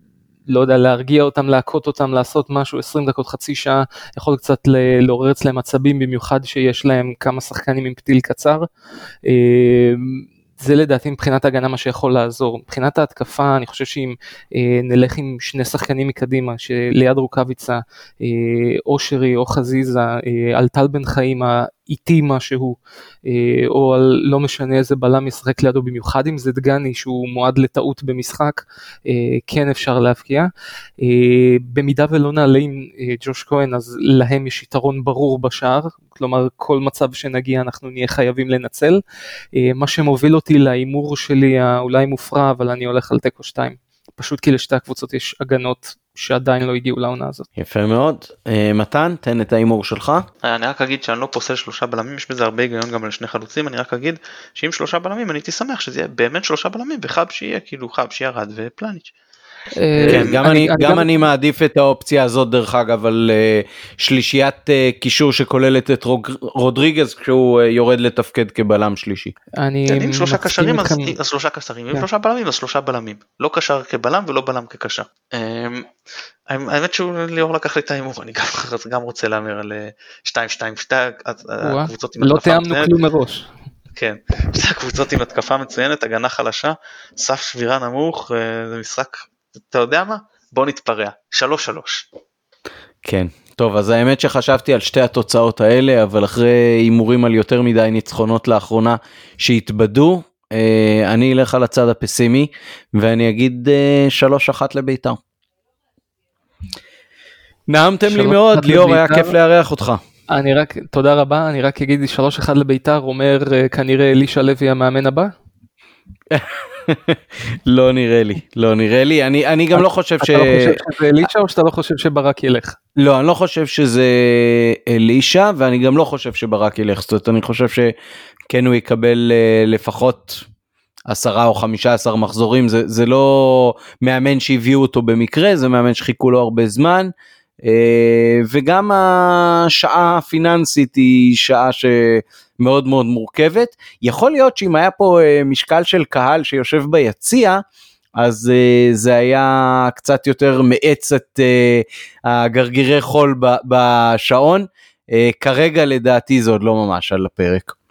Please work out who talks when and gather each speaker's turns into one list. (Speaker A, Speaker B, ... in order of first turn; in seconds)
Speaker A: 0.5-8.7, 9.2-30.5, 31.0-39.0, 39.5-47.5, 59.7-61.1, 69.6-71.1, 81.6-83.5, 108.0-109.3, 110.3-115.3, 119.7-122.8
Speaker B: 47.5-50.2, 60.1-69.3, 93.0-105.2, 107.7-110.0, 116.3-120.8, 123.0-127.9, 128.5-130.4, 131.1-137.1, 137.6-147.6, 148.2-157.7
Speaker C: 50.4-59.1, 59.9-60.4, 69.9-75.9, 76.5-82.9, 83.9-92.1